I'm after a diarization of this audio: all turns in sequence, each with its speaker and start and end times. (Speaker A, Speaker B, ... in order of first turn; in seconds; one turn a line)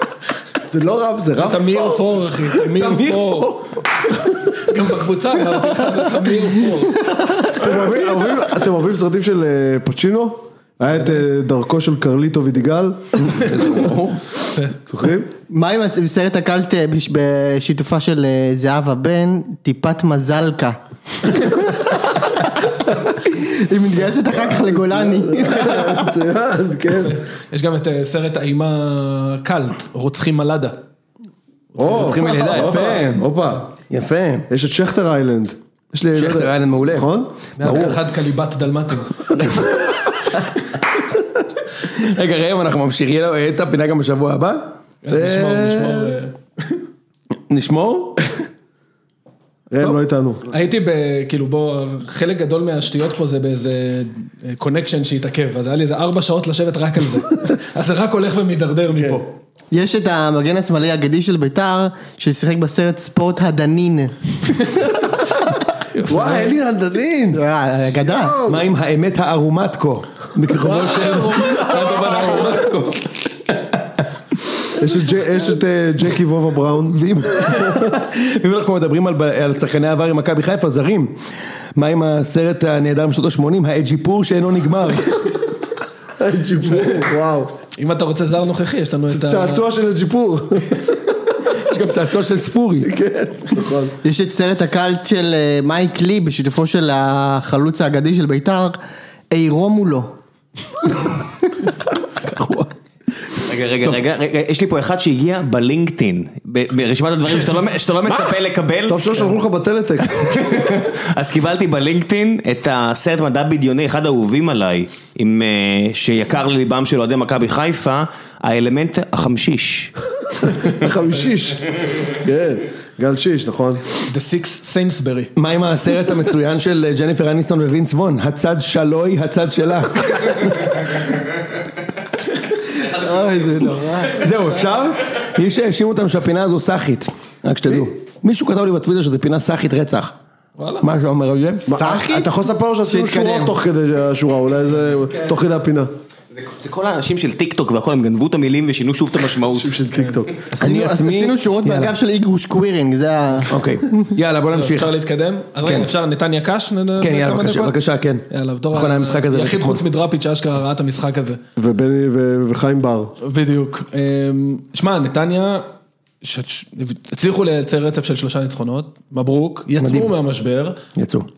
Speaker A: 0.7-2.1
Speaker B: 1.4-3.6
Speaker C: 2.5-4.5
Speaker B: 4.5-7.0
Speaker C: 5.8-6.7
Speaker A: 7.5-13.6
Speaker C: 13.2-14.2
Speaker A: 14.9-15.3
Speaker D: 15.5-26.1
Speaker A: 24.3-27.2
Speaker B: 27.0-30.8
Speaker A: 31.8-33.6
Speaker C: 31.8-33.3
Speaker B: 31.8-32.3
Speaker C: 33.9-34.5
Speaker A: 34.5-37.9
Speaker C: 36.1-38.0
Speaker B: 37.6-39.9
Speaker C: 39.4-39.8
Speaker C: 41.8-44.8
Speaker B: 45.0-46.8
Speaker A: 45.1-46.0
Speaker C: 47.5-48.2
Speaker A: 49.7-50.5
Speaker B: 50.5-59.3
Speaker A: 59.0-59.2
Speaker D: 59.7-64.1
Speaker B: 65.9-66.5
Speaker A: 66.1-67.4
Speaker D: 67.3-68.4
Speaker A: 68.1-68.6
Speaker C: 68.5-74.0
Speaker B: 70.6-72.8
Speaker A: 74.8-77.9
Speaker C: 76.9-81.2
Speaker C: 81.8-85.2
Speaker A: 86.2-87.5
Speaker B: 87.7-89.7
Speaker A: 89.1-91.0
Speaker C: 91.6-92.9
Speaker A: 92.8-94.0
Speaker D: 94.0-98.8
Speaker D: 99.3-100.1
Speaker C: 102.2-102.7
Speaker E: 103.4-109.2
Speaker A: 108.9-110.5
Speaker E: 110.2-119.9
Speaker A: 120.6-123.8
Speaker B: 124.1-125.3
Speaker C: 125.4-130.5
Speaker D: 132.9-134.3
Speaker C: 134.1-140.1
Speaker B: 140.6-140.9
Speaker C: 140.8-141.7
Speaker A: 141.7-145.9
Speaker D: 141.7-142.3
Speaker D: 142.9-143.6
Speaker E: 146.3-149.8
Speaker A: 149.6-150.4
Speaker B: 149.9-150.2
Speaker D: 150.6-153.5
Speaker C: 150.6-151.9
Speaker C: 153.5-154.9
Speaker B: 154.5-157.8
Speaker C: 155.6-155.9
Speaker C: 157.0-159.8
Speaker B: 158.3-161.4
Speaker A: 161.6-163.1
Speaker B: 163.2-165.7
Speaker B: 166.2-170.8
Speaker C: 169.8-170.1
Speaker C: 170.9-171.3